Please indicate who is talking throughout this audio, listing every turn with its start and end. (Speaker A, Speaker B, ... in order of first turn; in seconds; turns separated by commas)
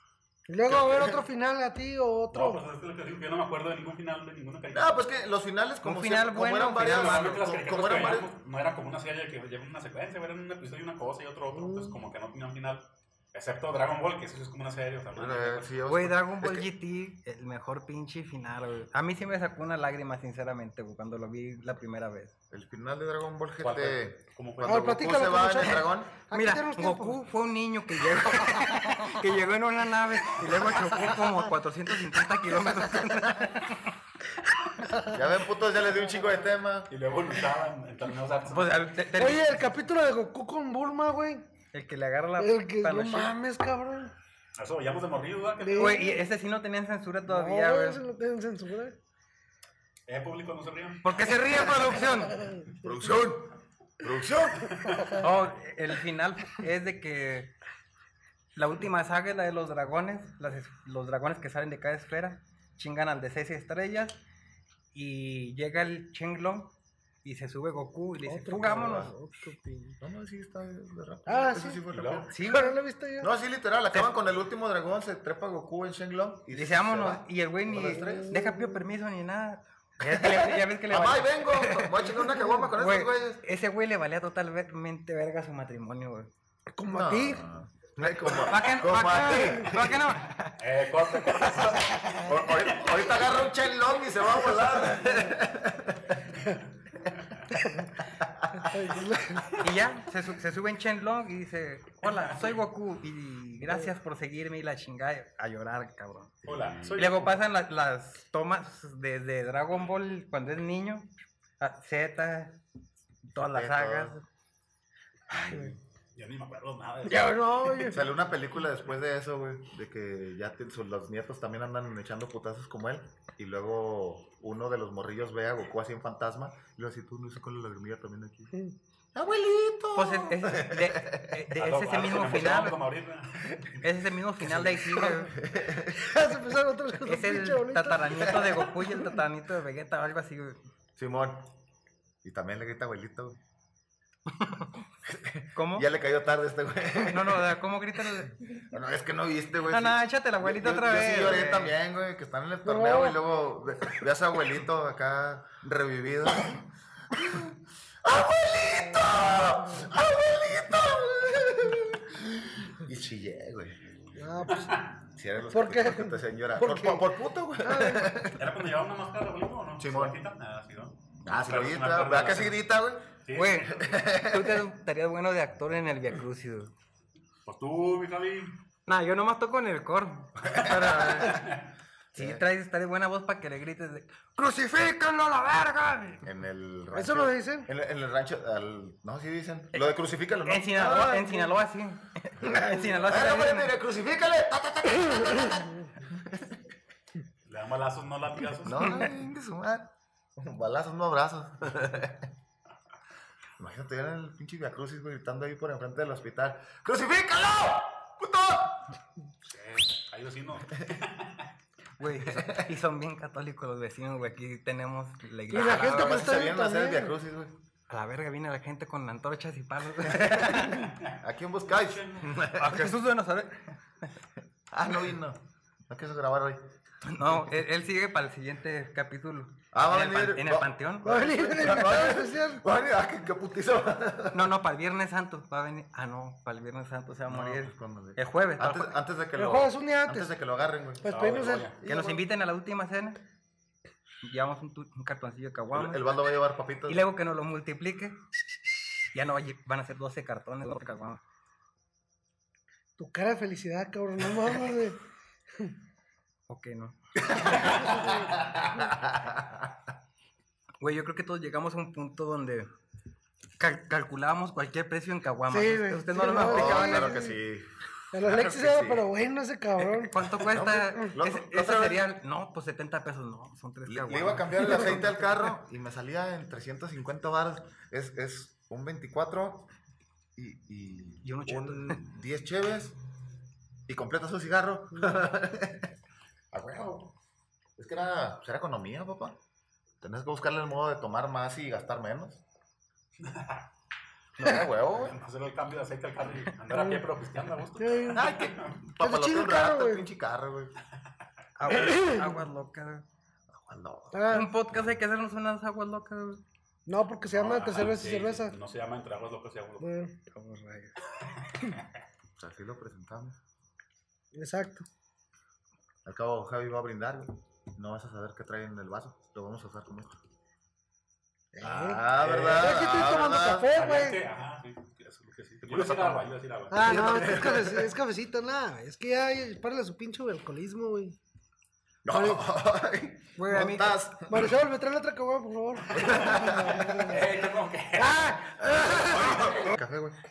Speaker A: 0.5-2.6, Speaker B: 0.7-1.0, Speaker C: 2.3-5.0, Speaker B: 4.7-8.3, Speaker D: 5.8-7.6, Speaker C: 6.8-15.7, Speaker A: 11.5-11.9, Speaker B: 15.1-16.7, Speaker D: 15.9-22.3, Speaker B: 22.5-26.1, Speaker C: 23.6-25.0, Speaker A: 24.6-27.2, Speaker D: 26.3-33.9, Speaker C: 30.8-31.1, Speaker A: 34.8-35.2, Speaker B: 35.1-36.9, Speaker C: 36.9-38.8, Speaker D: 38.5-39.6, Speaker A: 39.1-41.5, Speaker D: 41.7-43.3, Speaker A: 42.4-44.1, Speaker C: 44.6-46.1, Speaker A: 45.6-46.1, Speaker D: 45.8-48.0, Speaker A: 47.3-49.0, Speaker C: 50.1-51.6, Speaker D: 51.0-52.4, Speaker A: 52.0-52.7, Speaker B: 52.8-54.8, Speaker C: 54.7-55.1, Speaker D: 55.1-57.5, Speaker D: 58.5-64.2, Speaker D: 64.9-66.7, Speaker D: 67.2-69.1, Speaker A: 68.2-70.0, Speaker B: 68.5-69.1, Speaker B: 70.0-72.3, Speaker A: 71.3-71.8, Speaker C: 71.9-72.3, Speaker D: 72.3-72.8, Speaker A: 72.4-73.3, Speaker B: 73.2-78.4, Speaker D: 76.5-86.3, Speaker A: 77.7-78.8, Speaker B: 80.0-83.4, Speaker A: 86.7-87.4, Speaker B: 86.9-90.0, Speaker D: 88.3-90.6, Speaker C: 90.6-93.3, Speaker B: 92.2-96.4, Speaker A: 97.6-97.9, Speaker B: 98.1-98.7, Speaker A: 98.7-99.5, Speaker C: 98.9-99.6, Speaker D: 99.6-111.1, Speaker C: 102.2-102.5, Speaker C: 106.4-107.4, Speaker D: 111.6-112.6, Speaker D: 113.3-114.2, Speaker B: 113.4-114.2, Speaker B: 115.3-115.8, Speaker C: 116.2-117.9, Speaker A: 117.0-118.0, Speaker B: 117.9-128.5, Speaker B: 129.1-131.4, Speaker D: 129.9-132.8, Speaker C: 131.5-133.8, Speaker D: 133.8-135.3, Speaker B: 134.4-136.1, Speaker A: 134.9-135.3, Speaker A: 135.9-138.5, Speaker D: 137.0-140.6, Speaker B: 141.0-141.5, Speaker B: 142.2-143.4, Speaker D: 144.3-144.8, Speaker B: 145.0-163.8, Speaker D: 145.6-145.8, Speaker D: 147.0-148.4, Speaker D: 149.7-151.7, Speaker A: 152.6-153.2, Speaker A: 164.1-164.7, Speaker C: 164.5-164.8, Speaker B: 165.2-168.6, Speaker A: 165.5-167.1, Speaker A: 167.6-168.2, Speaker C: 168.3-172.6, Speaker B: 169.8-170.2, Speaker B: 171.2-173.1, Speaker C: 173.2-173.7, Speaker D: 173.3-176.7, Speaker B: 173.7-174.6, Speaker C: 177.4-178.6, Speaker D: 178.9-181.6, Speaker C: 181.1-181.5, Speaker B: 182.1-182.4, Speaker D: 182.1-186.2, Speaker B: 186.2-191.2, Speaker A: 186.9-187.7, Speaker D: 189.7-193.7, Speaker A: 190.8-191.5, Speaker A: 192.5-192.9, Speaker B: 193.0-196.6, Speaker C: 197.4-199.0, Speaker B: 198.6-202.3, Speaker B: 203.6-208.9, Speaker C: 209.4-211.5, Speaker D: 212.0-216.3, Speaker B: 212.2-212.7, Speaker A: 215.5-217.1, Speaker B: 215.5-217.5, Speaker D: 217.9-220.9, Speaker B: 220.1-222.9, Speaker C: 221.7-222.2, Speaker D: 222.2-224.1, Speaker B: 224.7-226.7, Speaker D: 227.0-231.1, Speaker B: 229.7-234.5, Speaker A: 231.0-232.6, Speaker D: 234.3-238.9, Speaker B: 237.3-241.0, Speaker A: 239.3-240.3, Speaker A: 241.0-241.7, Speaker C: 241.0-241.8, Speaker B: 241.8-242.2, Speaker D: 241.8-243.2, Speaker D: 244.2-246.0, Speaker B: 245.7-247.0, Speaker D: 246.9-248.2, Speaker D: 249.0-251.2, Speaker A: 253.0-255.0, Speaker D: 256.5-257.6, Speaker B: 257.3-259.7, Speaker A: 257.8-258.2, Speaker D: 260.8-262.7, Speaker D: 263.6-267.2, Speaker A: 265.5-267.4, Speaker B: 266.2-269.1, Speaker A: 268.1-270.1, Speaker D: 269.8-275.4, Speaker B: 270.4-272.1, Speaker B: 273.9-279.7, Speaker B: 280.4-282.9, Speaker D: 281.2-282.0, Speaker B: 283.9-285.9, Speaker B: 286.5-287.1, Speaker B: 287.8-289.4, Speaker B: 290.0-292.4, Speaker C: 293.2-293.6, Speaker B: 294.4-295.2, Speaker C: 295.0-298.8, Speaker A: 296.7-297.0, Speaker A: 297.8-298.3, Speaker B: 298.1-300.7, Speaker A: 299.0-300.1, Speaker D: 301.6-303.0, Speaker A: 301.7-302.3, Speaker B: 303.5-304.5, Speaker A: 304.1-304.5, Speaker D: 304.3-306.4, Speaker A: 306.9-308.5, Speaker C: 307.3-309.9, Speaker A: 309.8-310.2, Speaker D: 310.3-310.9, Speaker B: 312.4-313.4, Speaker A: 314.3-314.9, Speaker B: 316.0-320.2, Speaker A: 321.5-324.2, Speaker B: 321.6-323.7, Speaker C: 322.2-323.0, Speaker C: 323.7-327.4, Speaker B: 325.7-326.2, Speaker A: 326.7-331.2, Speaker B: 326.8-327.9, Speaker B: 332.0-334.5, Speaker A: 332.1-332.4, Speaker D: 333.4-334.0, Speaker A: 334.3-337.3, Speaker B: 335.9-337.0, Speaker C: 335.9-338.4, Speaker A: 337.9-339.5, Speaker B: 338.7-340.2, Speaker C: 339.0-339.4